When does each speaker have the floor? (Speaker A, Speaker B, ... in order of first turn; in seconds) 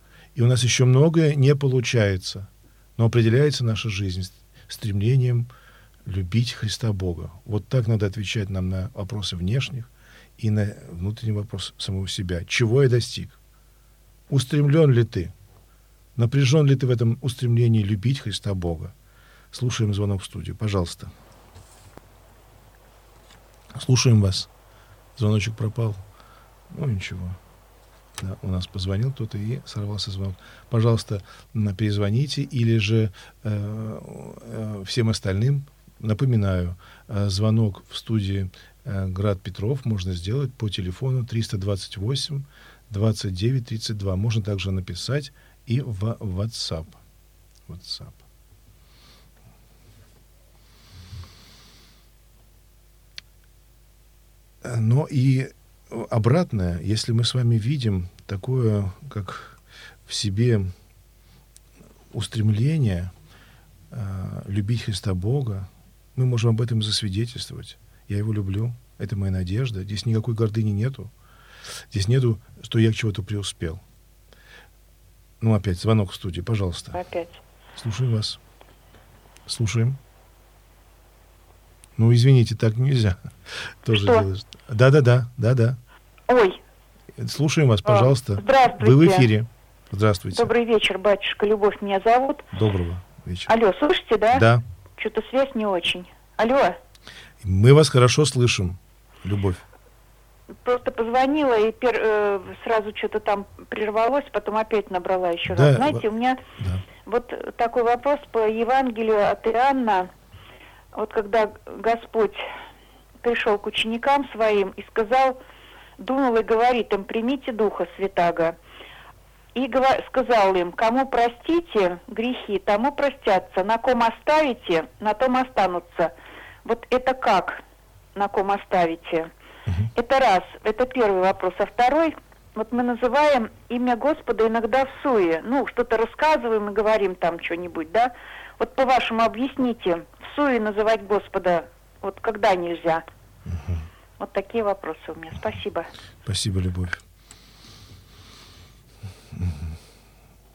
Speaker A: 0.3-5.5, 6.0-13.4, 14.3-15.3, 16.1-18.9, 19.5-21.1, 23.7-24.5, 25.2-26.0, 26.7-27.4, 28.2-47.0, 47.7-48.2, 54.6-60.7, 62.1-63.1, 63.9-71.1, 71.9-73.8, 75.4-77.0, 77.8-78.4, 79.5-80.0, 82.0-83.3, 83.8-85.8, 87.2-90.5, 92.5-93.5, 94.3-94.6, 97.4-99.6, 105.5-106.0, 106.6-106.8, 143.5-143.9, 146.3-147.0, 149.4-149.7
Speaker B: 76.9-77.4, 84.0-84.2, 86.3-86.6, 87.9-89.3, 90.3-92.5, 93.5-94.5, 95.0-96.8, 100.6-106.4, 107.0-110.1, 110.9-112.5, 113.2-115.4, 116.0-118.5, 119.5-126.1, 126.6-127.6, 128.1-129.3, 129.9-143.0, 144.2-145.9